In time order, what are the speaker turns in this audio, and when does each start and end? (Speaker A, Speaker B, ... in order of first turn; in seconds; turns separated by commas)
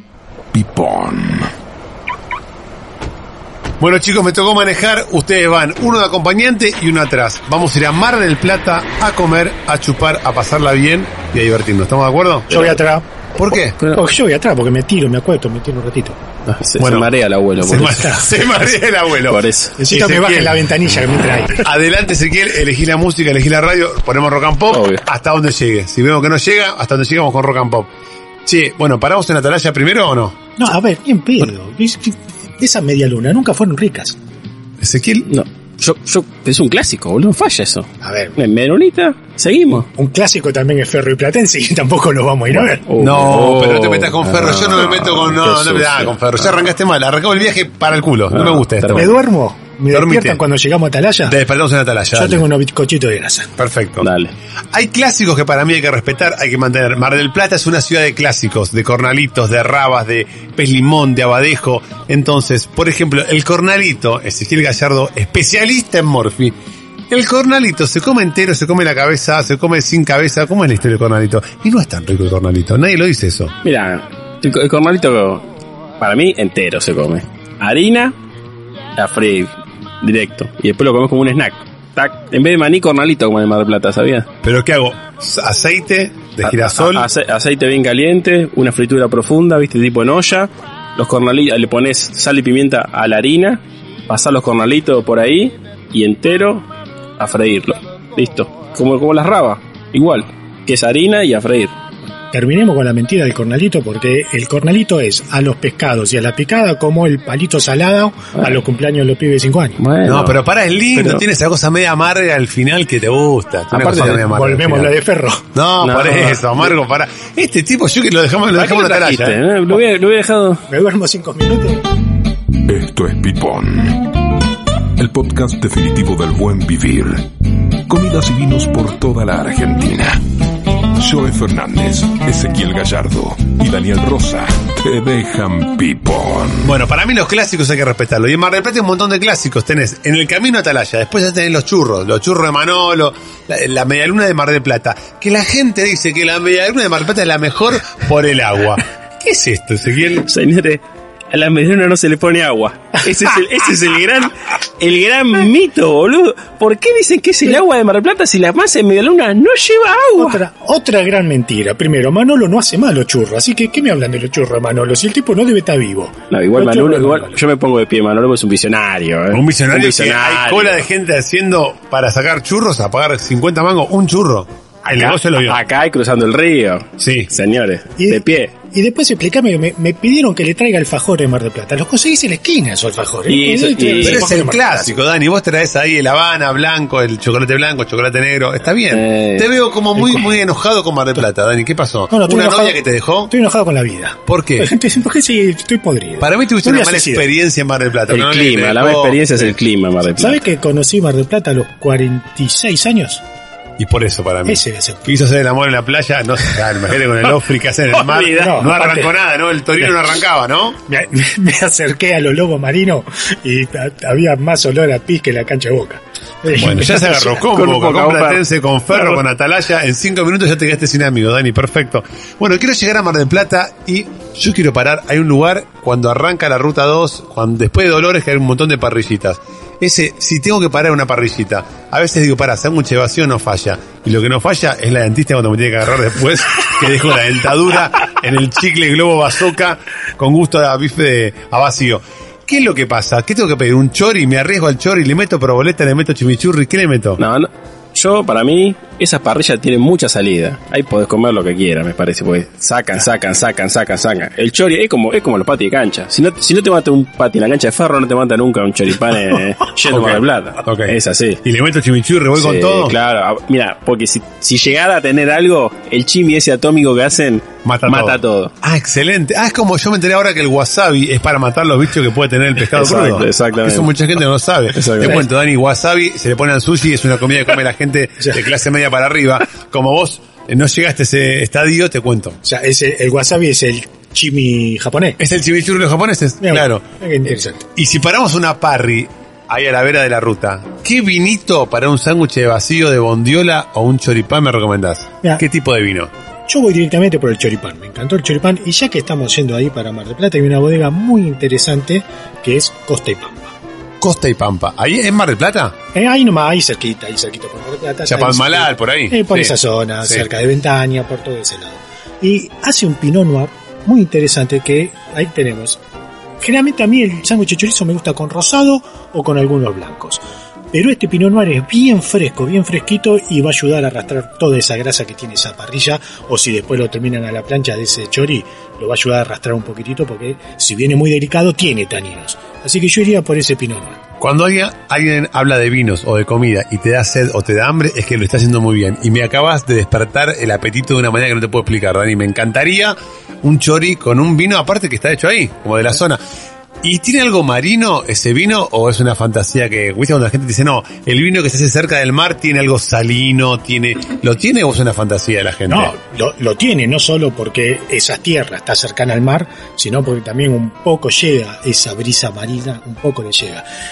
Speaker A: 0.5-1.5, Speaker B: 3.8-12.8, Speaker C: 12.5-13.1, Speaker B: 13.3-13.8, Speaker C: 13.8-16.2, Speaker D: 16.4-18.1, Speaker B: 16.8-20.6, Speaker C: 17.7-18.3, Speaker D: 19.2-19.8, Speaker C: 19.8-21.6, Speaker B: 21.6-27.9, Speaker D: 24.7-25.0, Speaker B: 28.4-30.4, Speaker C: 30.6-34.2, Speaker B: 34.8-35.3, Speaker D: 35.3-39.9, Speaker C: 38.0-38.3, Speaker C: 39.9-42.9, Speaker D: 42.5-46.5, Speaker B: 43.0-49.1, Speaker D: 48.3-49.1, Speaker C: 48.9-51.3, Speaker B: 49.9-50.4, Speaker B: 51.2-52.4, Speaker C: 52.1-53.5, Speaker B: 53.6-54.1, Speaker D: 54.0-54.3, Speaker B: 54.7-66.5, Speaker B: 67.1-73.5, Speaker D: 73.6-75.5, Speaker D: 76.0-78.2, Speaker D: 79.0-84.3, Speaker B: 84.4-87.1, Speaker D: 86.4-101.7, Speaker C: 102.3-109.8, Speaker D: 109.8-110.4, Speaker B: 110.0-114.9, Speaker D: 110.9-111.2, Speaker D: 113.7-114.2, Speaker C: 114.0-115.5, Speaker B: 115.5-119.4, Speaker D: 115.8-116.7, Speaker D: 118.5-120.7, Speaker C: 120.7-121.9, Speaker A: 122.6-124.2, Speaker A: 125.0-127.3, Speaker A: 127.9-130.2, Speaker A: 130.8-136.7, Speaker B: 136.6-150.3, Speaker D: 150.2-160.4, Speaker C: 160.2-167.3, Speaker D: 166.3-170.9, Speaker B: 169.3-175.6, Speaker D: 174.9-178.5, Speaker B: 177.0-177.3, Speaker C: 178.0-185.0, Speaker D: 183.3-184.2, Speaker B: 184.0-193.3, Speaker D: 188.9-189.5, Speaker C: 192.1-197.3, Speaker B: 194.3-194.7, Speaker B: 196.2-199.5, Speaker D: 198.1-200.4, Speaker C: 200.2-203.2, Speaker B: 203.8-210.8, Speaker C: 204.4-205.1, Speaker D: 207.9-208.7, Speaker C: 208.3-209.1, Speaker C: 210.9-217.4, Speaker B: 216.5-247.2, Speaker D: 217.4-219.2, Speaker D: 247.2-261.4, Speaker B: 259.9-262.9, Speaker D: 262.4-268.5, Speaker B: 267.6-282.4, Speaker D: 272.7-273.9, Speaker D: 274.7-275.2, Speaker C: 282.4-285.2, Speaker B: 285.2-286.8, Speaker C: 286.4-287.7, Speaker B: 287.8-296.1, Speaker C: 296.5-303.5, Speaker B: 304.0-305.7, Speaker C: 305.9-315.8, Speaker B: 308.1-310.2, Speaker C: 316.4-320.2, Speaker C: 320.7-334.0, Speaker B: 334.2-346.2, Speaker B: 346.8-355.9, Speaker C: 355.7-363.6